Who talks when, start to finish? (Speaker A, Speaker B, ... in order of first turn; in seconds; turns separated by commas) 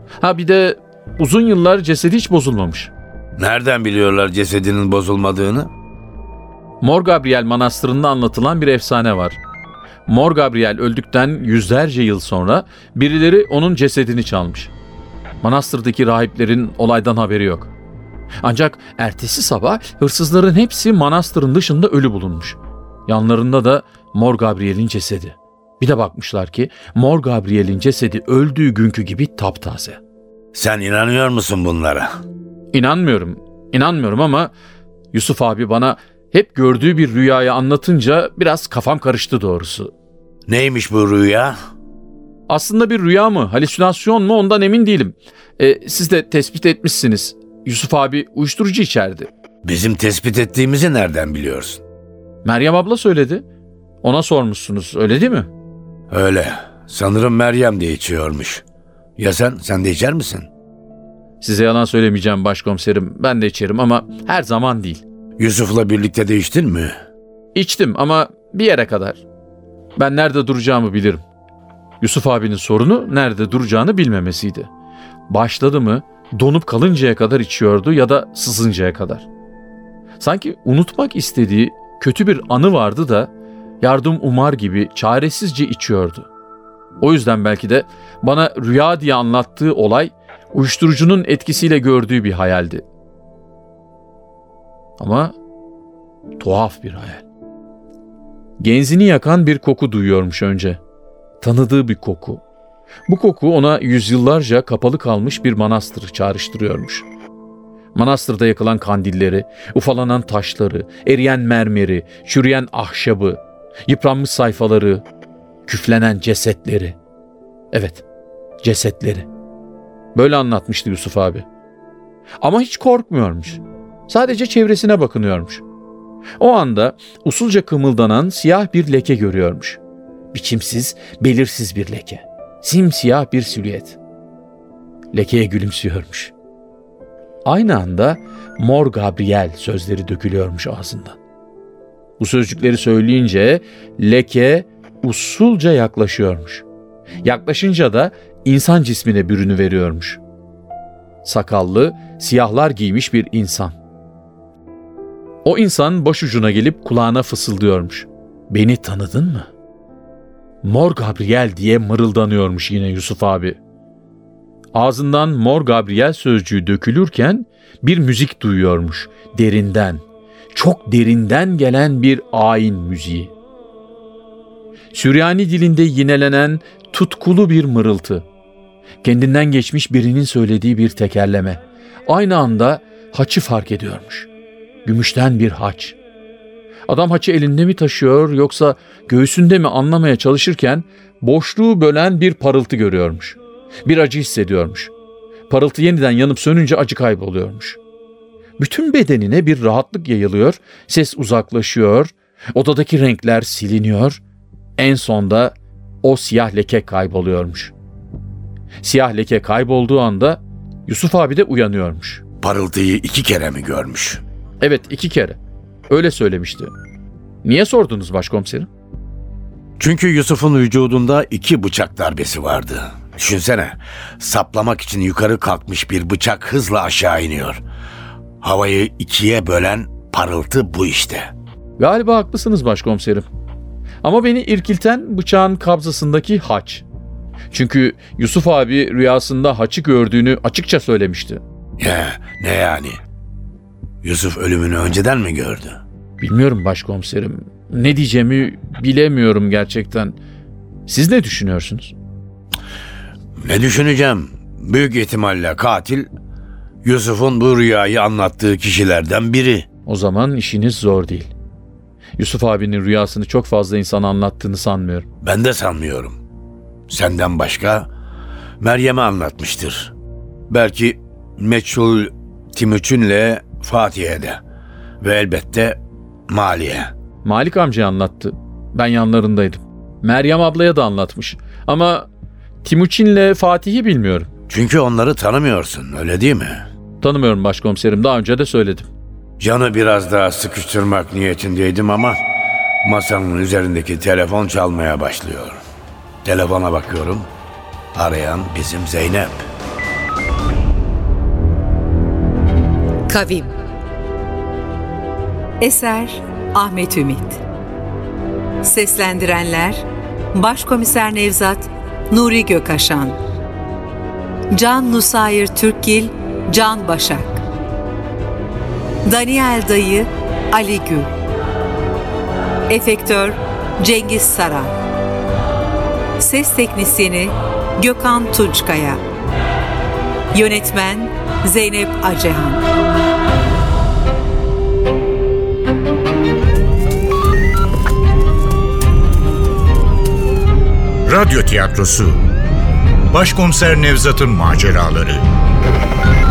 Speaker A: 0.2-2.9, Speaker B: 3.4-5.7, Speaker A: 6.8-9.4, Speaker A: 10.1-14.7, Speaker A: 15.4-17.7, Speaker A: 18.4-30.0, Speaker B: 30.5-32.1, Speaker A: 32.7-34.5, Speaker A: 35.1-39.9, Speaker B: 40.5-41.5, Speaker A: 42.5-49.3, Speaker B: 49.6-51.8, Speaker A: 52.4-53.4, Speaker A: 54.0-55.5, Speaker B: 56.1-58.6, Speaker B: 59.2-60.5, Speaker A: 61.4-65.0, Speaker B: 65.4-67.0, Speaker A: 67.5-69.2, Speaker A: 70.0-71.2, Speaker A: 72.0-74.7, Speaker A: 75.3-79.2, Speaker A: 80.2-86.3, Speaker A: 87.0-92.8, Speaker A: 95.0-95.3, Speaker A: 96.4-97.2, Speaker A: 98.6-100.8, Speaker A: 101.4-102.4, Speaker A: 103.1-107.0, Speaker A: 107.9-115.0, Speaker A: 115.7-117.0, Speaker A: 117.7-118.0, Speaker A: 118.6-119.3, Speaker A: 120.1-121.5, Speaker A: 122.4-125.6, Speaker A: 126.4-129.8, Speaker A: 130.3-134.0, Speaker A: 135.1-136.3, Speaker A: 137.4-141.2, Speaker A: 142.2-146.6, Speaker A: 147.2-150.2, Speaker A: 151.2-153.8, Speaker A: 155.4-159.5, Speaker A: 160.6-163.6, Speaker A: 164.7-170.0, Speaker A: 170.5-173.3, Speaker A: 174.9-178.2, Speaker A: 179.0-184.3, Speaker A: 184.8-186.0, Speaker A: 186.9-194.9, Speaker A: 195.5-197.8, Speaker A: 198.6-204.2, Speaker A: 204.8-207.7, Speaker A: 208.8-212.2, Speaker B: 212.4-214.2, Speaker A: 214.6-215.4, Speaker A: 215.9-216.7, Speaker A: 217.4-218.7, Speaker B: 219.8-227.6, Speaker B: 228.4-231.3, Speaker A: 231.8-233.2, Speaker A: 234.0-236.8, Speaker A: 237.5-241.4, Speaker B: 241.8-243.0, Speaker B: 244.0-245.8, Speaker A: 246.2-250.2, Speaker A: 250.8-251.9, Speaker B: 253.4-256.1, Speaker B: 256.8-259.6, Speaker A: 259.9-261.3, Speaker A: 262.2-265.1, Speaker B: 265.2-266.2, Speaker B: 266.9-267.9, Speaker B: 268.6-269.9, Speaker B: 270.5-274.4, Speaker B: 275.0-276.9, Speaker A: 277.2-282.1, Speaker A: 282.6-284.3, Speaker B: 284.5-286.7, Speaker A: 287.0-288.9, Speaker B: 289.4-292.2, Speaker B: 292.8-295.6, Speaker B: 296.2-297.3, Speaker B: 297.9-299.5, Speaker C: 303.1-303.5, Speaker C: 305.6-307.4, Speaker C: 308.6-309.8, Speaker C: 310.3-313.2, Speaker C: 314.5-317.4, Speaker C: 319.0-321.1, Speaker C: 322.7-324.7, Speaker C: 326.2-329.0, Speaker C: 330.3-332.6, Speaker D: 341.1-342.2, Speaker D: 343.1-345.2